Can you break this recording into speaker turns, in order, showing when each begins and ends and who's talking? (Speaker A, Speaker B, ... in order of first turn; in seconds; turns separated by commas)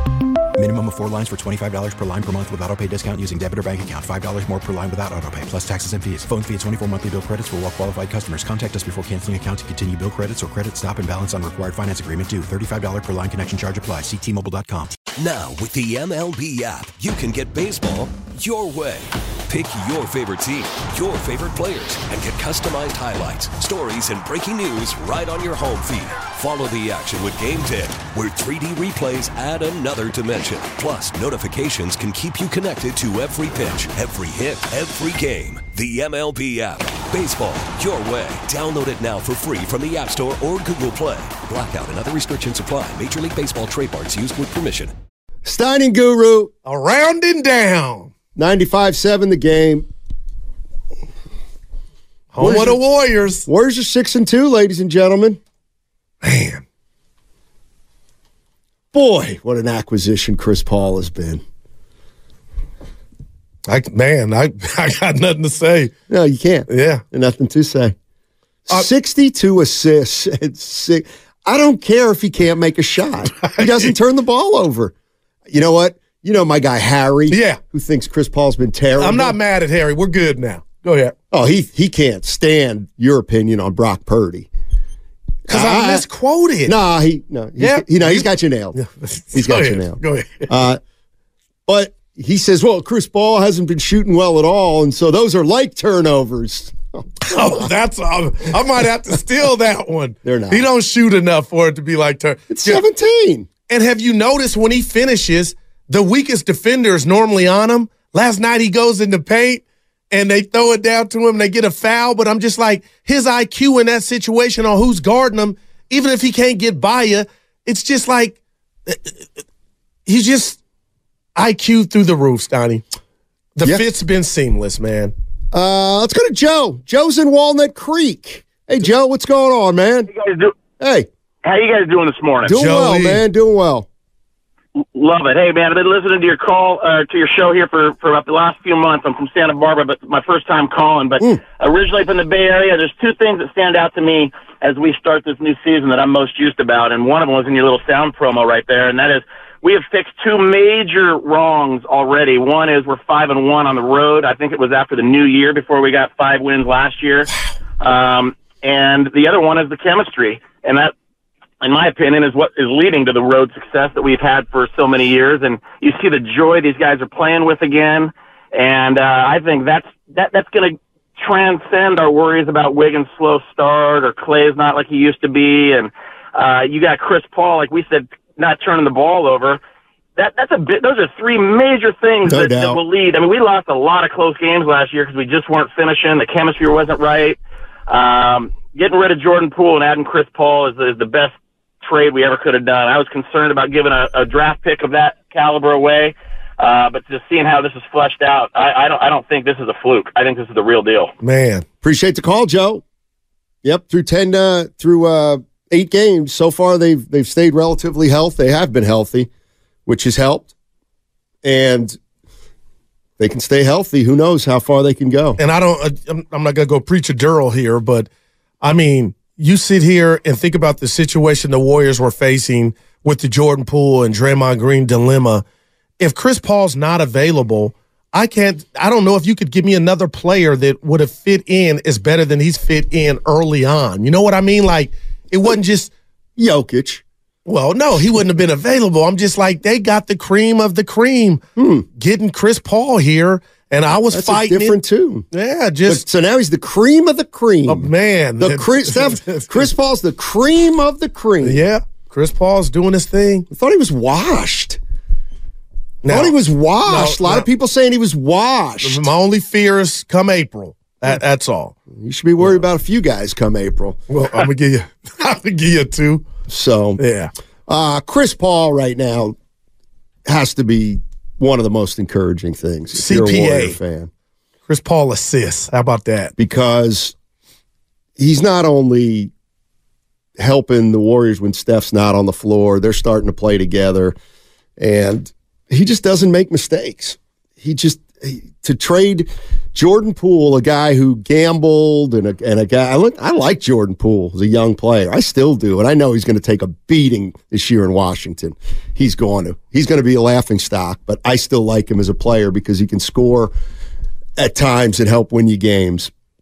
Speaker A: 0.6-15.0, Speaker B: 15.1-44.9, Speaker C: 45.5-46.5, Speaker D: 46.6-48.1, Speaker C: 48.4-49.9, Speaker D: 52.3-53.5, Speaker C: 52.4-52.8, Speaker C: 53.5-55.4, Speaker D: 56.2-56.6, Speaker C: 58.9-61.4, Speaker D: 63.7-65.9, Speaker C: 66.1-68.0, Speaker D: 66.7-67.0, Speaker C: 68.7-74.9, Speaker D: 73.4-73.9, Speaker C: 75.5-79.4, Speaker D: 77.3-77.6, Speaker D: 79.0-81.2, Speaker C: 81.3-84.5, Speaker C: 85.5-86.1, Speaker D: 85.5-86.7, Speaker C: 86.7-88.8, Speaker D: 87.6-90.5, Speaker C: 89.3-90.8, Speaker C: 91.7-97.6, Speaker D: 97.3-102.8, Speaker C: 100.2-100.7, Speaker C: 102.5-103.5, Speaker D: 103.7-119.2, Speaker D: 120.1-120.6, Speaker D: 121.4-122.8, Speaker D: 123.6-125.1, Speaker C: 125.5-130.1, Speaker E: 130.1-130.6, Speaker C: 130.8-131.1, Speaker E: 131.4-132.6, Speaker C: 132.4-133.9, Speaker D: 132.6-133.2, Speaker E: 134.9-160.9, Speaker E: 161.6-179.6, Speaker E: 180.2-201.1, Speaker C: 182.2-182.8, Speaker D: 201.2-201.7, Speaker C: 201.8-202.8, Speaker C: 203.6-209.3, Speaker C: 209.9-210.5, Speaker C: 211.4-212.0, Speaker C: 213.2-215.4, Speaker D: 215.4-218.1, Speaker D: 218.6-225.4, Speaker D: 226.0-235.9, Speaker C: 236.4-237.0, Speaker D: 237.5-241.4, Speaker C: 241.6-241.9, Speaker D: 242.0-244.8, Speaker C: 244.1-245.3, Speaker D: 245.3-246.0, Speaker C: 245.9-251.6, Speaker D: 247.7-249.7, Speaker D: 251.4-253.5, Speaker C: 253.5-254.8, Speaker D: 256.0-256.3, Speaker C: 256.1-259.1, Speaker D: 256.9-257.5, Speaker D: 258.8-261.8, Speaker C: 261.9-264.0, Speaker D: 264.1-266.3, Speaker C: 266.5-267.0, Speaker D: 267.0-267.3, Speaker C: 267.7-269.4, Speaker C: 270.3-274.1, Speaker D: 272.9-273.8, Speaker D: 274.7-276.3, Speaker C: 276.4-277.1, Speaker C: 278.2-279.3, Speaker C: 280.4-284.2, Speaker C: 284.8-303.5, Speaker C: 304.4-306.1